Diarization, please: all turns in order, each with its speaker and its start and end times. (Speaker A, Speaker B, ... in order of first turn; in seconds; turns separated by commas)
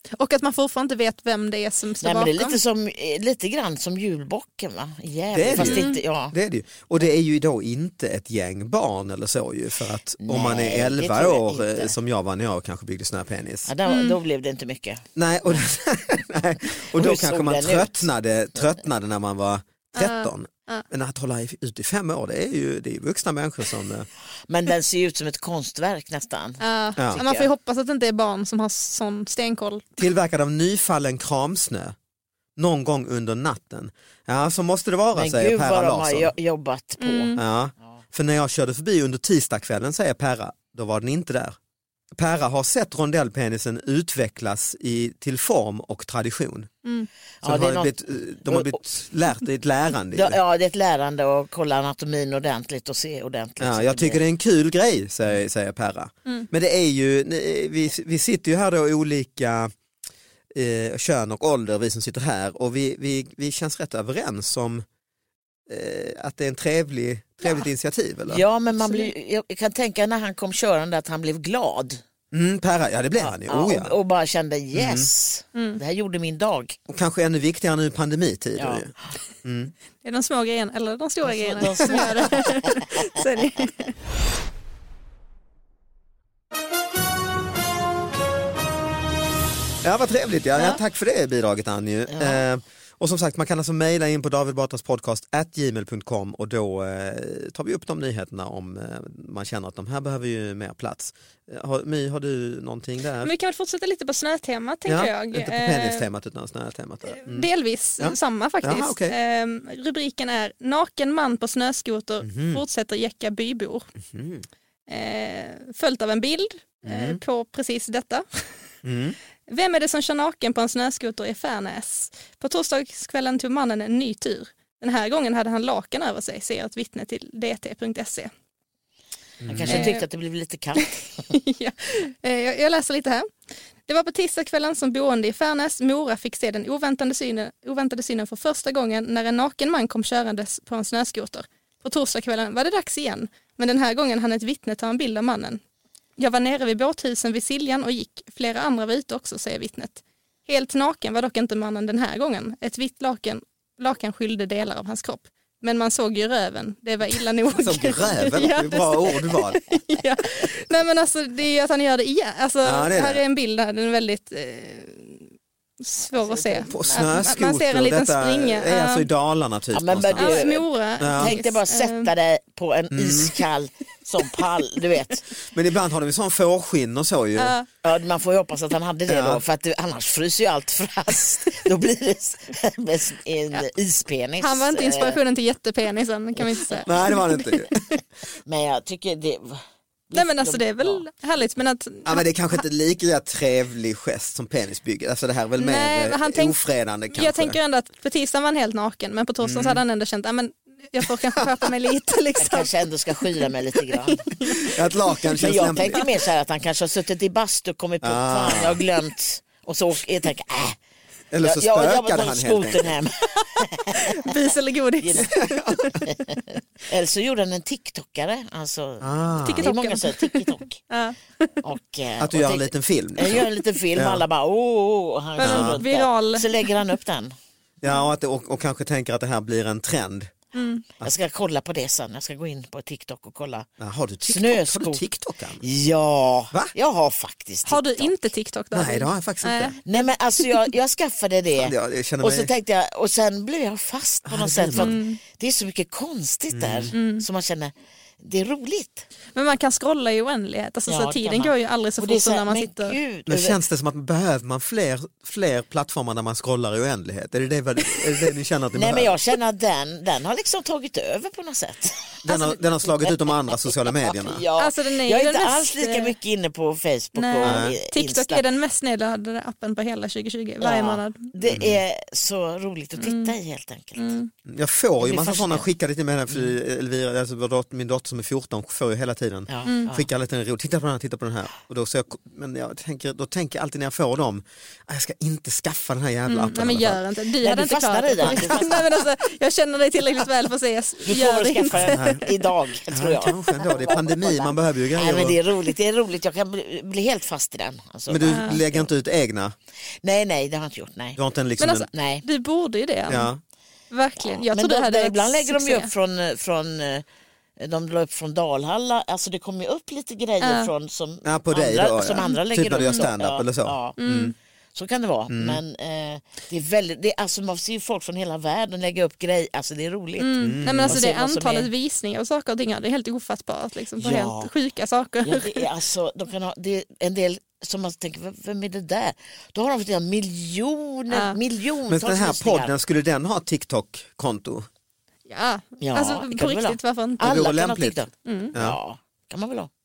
Speaker A: 0.2-2.6, Speaker B: 2.0-6.3, Speaker C: 5.3-13.7, Speaker A: 5.6-6.0, Speaker B: 10.2-11.9, Speaker B: 13.7-15.6, Speaker A: 13.9-14.2, Speaker C: 15.2-24.1, Speaker B: 16.9-18.0, Speaker A: 20.0-20.9, Speaker B: 24.5-27.5, Speaker A: 26.6-30.0, Speaker C: 30.0-31.9, Speaker C: 32.6-36.3, Speaker B: 35.1-37.4, Speaker A: 37.0-37.4, Speaker C: 37.4-41.6, Speaker C: 42.1-46.7, Speaker B: 47.4-47.9, Speaker C: 47.4-50.4, Speaker B: 48.5-48.8, Speaker B: 50.1-54.2, Speaker C: 53.6-59.7, Speaker C: 60.5-64.8, Speaker C: 65.7-68.4, Speaker B: 68.3-72.0, Speaker A: 68.8-69.1, Speaker C: 72.3-73.9, Speaker B: 73.2-76.8, Speaker C: 74.8-75.1, Speaker C: 76.9-78.9, Speaker B: 78.6-78.8, Speaker C: 79.4-79.7, Speaker A: 80.0-83.9, Speaker B: 81.2-83.2, Speaker C: 89.8-103.3, Speaker B: 92.1-92.4, Speaker A: 103.2-106.1, Speaker C: 104.9-107.5, Speaker A: 107.1-113.9, Speaker C: 108.0-109.2, Speaker C: 112.2-112.6, Speaker C: 114.1-114.5, Speaker A: 114.9-118.2, Speaker C: 116.8-117.2, Speaker C: 118.8-119.2, Speaker A: 119.5-128.3, Speaker C: 129.4-129.9, Speaker B: 129.4-131.2, Speaker A: 129.7-130.1, Speaker A: 130.8-133.3, Speaker A: 133.9-145.6, Speaker A: 146.2-169.1, Speaker C: 157.5-159.6, Speaker C: 162.6-163.2, Speaker B: 166.1-167.2, Speaker C: 166.7-170.4, Speaker B: 169.7-175.3, Speaker A: 170.2-172.1, Speaker C: 171.0-171.3, Speaker C: 172.9-173.3, Speaker C: 175.5-177.6, Speaker A: 177.4-177.7, Speaker B: 177.8-185.2, Speaker C: 179.1-179.4, Speaker A: 184.4-188.0, Speaker B: 186.4-186.9, Speaker C: 186.9-187.9, Speaker B: 188.5-191.0, Speaker A: 190.1-192.2, Speaker C: 192.1-197.6, Speaker A: 195.6-196.6, Speaker A: 197.1-202.7, Speaker C: 199.4-199.8, Speaker B: 202.4-204.3, Speaker A: 203.2-205.4, Speaker C: 204.4-206.1, Speaker B: 205.4-210.8, Speaker C: 208.0-208.8, Speaker C: 211.3-213.0, Speaker B: 211.4-214.3, Speaker A: 214.0-216.0, Speaker B: 215.0-215.4, Speaker C: 215.2-216.0, Speaker B: 216.0-220.8, Speaker C: 219.0-219.7, Speaker A: 219.4-221.6, Speaker B: 221.6-227.3, Speaker C: 222.2-224.2, Speaker A: 225.4-226.9, Speaker C: 225.4-225.8, Speaker C: 227.8-230.3, Speaker A: 230.5-230.8, Speaker B: 231.0-233.7, Speaker C: 233.8-235.6, Speaker B: 234.3-235.0, Speaker B: 235.6-238.2, Speaker A: 237.7-240.7, Speaker C: 238.7-239.8, Speaker B: 239.8-249.1, Speaker C: 241.6-242.5, Speaker C: 244.3-244.9, Speaker A: 244.8-245.2, Speaker C: 246.5-246.9, Speaker A: 246.9-247.3, Speaker A: 249.3-253.0, Speaker B: 250.9-253.6, Speaker C: 253.3-259.2, Speaker B: 258.7-268.4, Speaker C: 262.2-264.4, Speaker A: 264.6-266.1, Speaker A: 267.2-271.3, Speaker C: 267.4-267.8, Speaker B: 270.6-274.2, Speaker C: 271.5-271.8, Speaker A: 273.0-273.3, Speaker A: 274.0-274.3, Speaker C: 274.5-287.0, Speaker B: 275.0-275.7, Speaker B: 279.5-280.1, Speaker A: 286.3-292.3, Speaker B: 287.4-288.9, Speaker B: 291.1-298.9, Speaker C: 291.8-292.2, Speaker C: 292.9-295.4, Speaker C: 298.1-299.6, Speaker A: 298.2-298.6, Speaker B: 300.0-301.2, Speaker C: 301.2-301.9, Speaker A: 301.6-303.3, Speaker B: 301.9-302.2, Speaker C: 303.1-303.4, Speaker A: 303.9-305.9, Speaker B: 304.2-307.1, Speaker B: 307.6-314.0, Speaker A: 310.4-310.7, Speaker C: 311.2-314.4, Speaker A: 312.2-313.0, Speaker A: 314.0-314.4, Speaker B: 314.7-321.7, Speaker C: 315.3-315.6, Speaker A: 320.2-325.7, Speaker C: 320.4-321.0, Speaker B: 324.0-324.5, Speaker B: 325.2-332.7, Speaker A: 331.1-331.4, Speaker C: 331.9-334.7, Speaker A: 335.3-337.4, Speaker B: 335.8-339.7, Speaker C: 337.2-338.0, Speaker A: 338.2-338.5